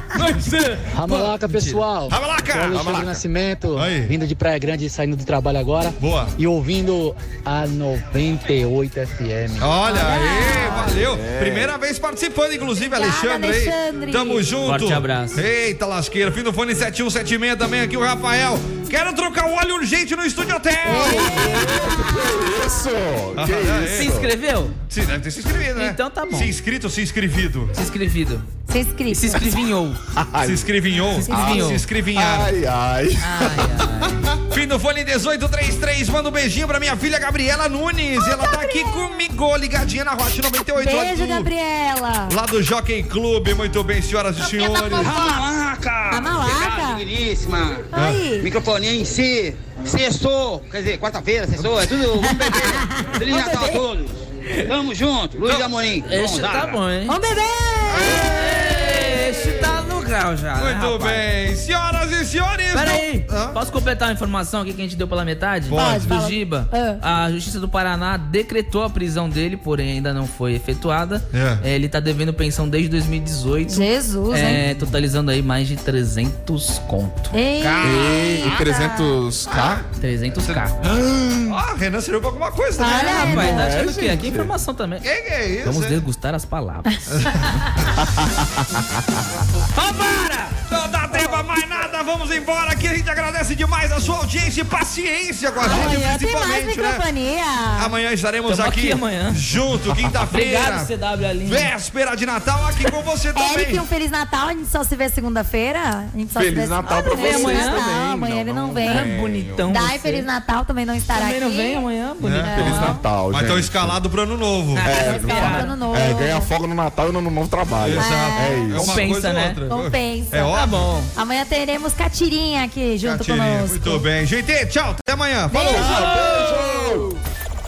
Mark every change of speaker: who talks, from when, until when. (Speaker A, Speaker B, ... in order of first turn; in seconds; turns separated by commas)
Speaker A: 0.1-3.1, Speaker B: 0.9-9.7, Speaker C: 1.5-1.8, Speaker D: 2.7-3.2, Speaker A: 3.7-4.1, Speaker A: 6.0-6.3, Speaker A: 9.6-21.7, Speaker E: 9.8-10.9, Speaker D: 10.6-11.7, Speaker E: 12.8-14.4, Speaker C: 14.7-15.4, Speaker E: 20.8-22.2, Speaker D: 20.9-24.3, Speaker A: 23.4-24.2, Speaker C: 23.7-24.7, Speaker A: 24.9-27.7, Speaker C: 25.8-26.5, Speaker C: 27.7-28.5, Speaker E: 28.7-29.4, Speaker C: 29.1-30.0, Speaker D: 30.1-30.7, Speaker A: 30.4-32.5, Speaker E: 31.1-31.5, Speaker C: 31.2-31.9, Speaker D: 31.3-34.4, Speaker C: 33.2-34.2, Speaker A: 34.5-41.5, Speaker E: 38.2-39.2, Speaker E: 40.8-42.4, Speaker A: 42.3-45.2, Speaker E: 44.6-45.4, Speaker F: 44.6-56.8, Speaker E: 46.1-47.0, Speaker E: 47.9-48.5, Speaker A: 47.9-48.3, Speaker A: 51.6-51.9, Speaker E: 52.2-53.8, Speaker C: 56.0-57.2, Speaker E: 57.1-58.3, Speaker A: 58.0-59.5, Speaker C: 58.0-61.3, Speaker A: 60.6-63.6, Speaker C: 62.7-77.4, Speaker A: 65.7-66.2, Speaker E: 65.7-67.0, Speaker A: 71.3-71.6, Speaker E: 73.7-74.6, Speaker E: 77.3-79.1, Speaker A: 77.6-78.7, Speaker D: 77.8-79.8, Speaker A: 79.5-79.8, Speaker C: 80.0-80.7, Speaker D: 80.8-81.6, Speaker A: 81.5-83.5, Speaker E: 82.8-83.7, Speaker C: 82.9-85.0, Speaker D: 83.2-84.5, Speaker A: 85.0-86.0, Speaker C: 85.6-87.1, Speaker A: 87.1-88.0, Speaker D: 88.0-89.2, Speaker C: 89.7-90.6, Speaker A: 90.7-97.0, Speaker C: 91.1-91.4, Speaker E: 95.6-97.9, Speaker A: 97.8-100.9, Speaker C: 98.5-99.5, Speaker C: 100.3-101.7, Speaker A: 101.5-103.8, Speaker E: 103.3-109.1, Speaker D: 106.3-109.7, Speaker C: 106.9-107.8, Speaker C: 108.9-110.3, Speaker E: 109.7-111.8, Speaker C: 111.1-113.0, Speaker A: 112.2-114.9, Speaker D: 112.5-114.0, Speaker E: 112.6-113.0, Speaker C: 114.7-115.7, Speaker D: 114.8-119.0, Speaker E: 114.9-116.5, Speaker A: 117.8-120.9, Speaker E: 118.0-118.6, Speaker C: 118.7-119.6, Speaker E: 119.7-120.6, Speaker C: 120.5-121.1, Speaker E: 121.1-124.1, Speaker A: 123.0-126.3, Speaker E: 125.5-125.9, Speaker C: 125.6-127.1, Speaker D: 125.6-127.1